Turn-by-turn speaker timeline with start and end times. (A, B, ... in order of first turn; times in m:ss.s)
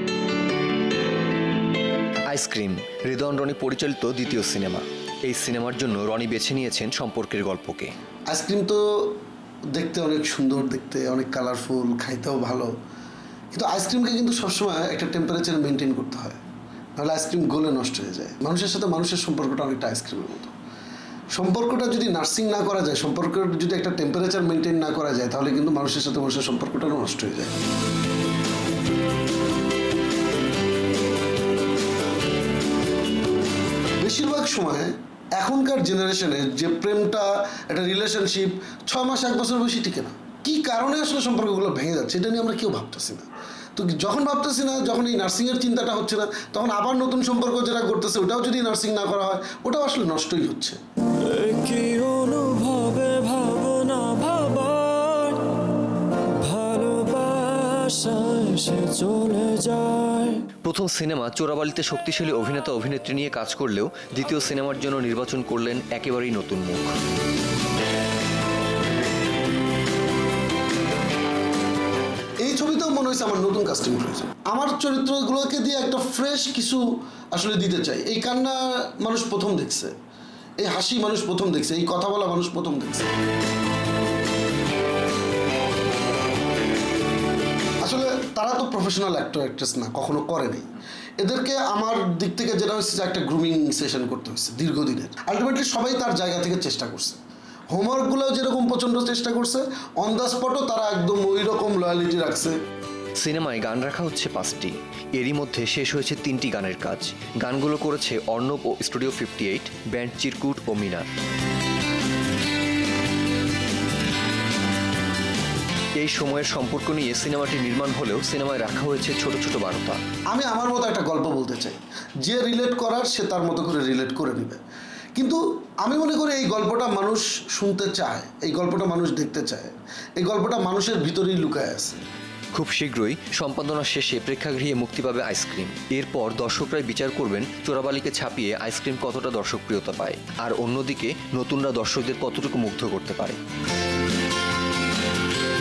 0:02.3-0:07.9 A
0:08.3-0:09.1 B
0:09.7-0:12.7 B
0:13.5-0:16.4 B
0:17.0-0:20.5 B
0:21.3-0:27.5 B
0:34.0-0:50.8 B
0:51.2-0:55.4 C
0:56.4-1:00.4 C
1:00.6-1:06.9 A
1:12.4-1:19.9 B
1:20.6-1:23.1 B
1:27.8-1:30.7 B
1:31.2-1:37.2 B
1:37.7-1:42.6 B
1:43.2-1:51.1 A
1:56.0-2:00.0 A
2:00.3-2:04.6 B
2:05.1-2:12.0 B
2:12.5-2:23.4 A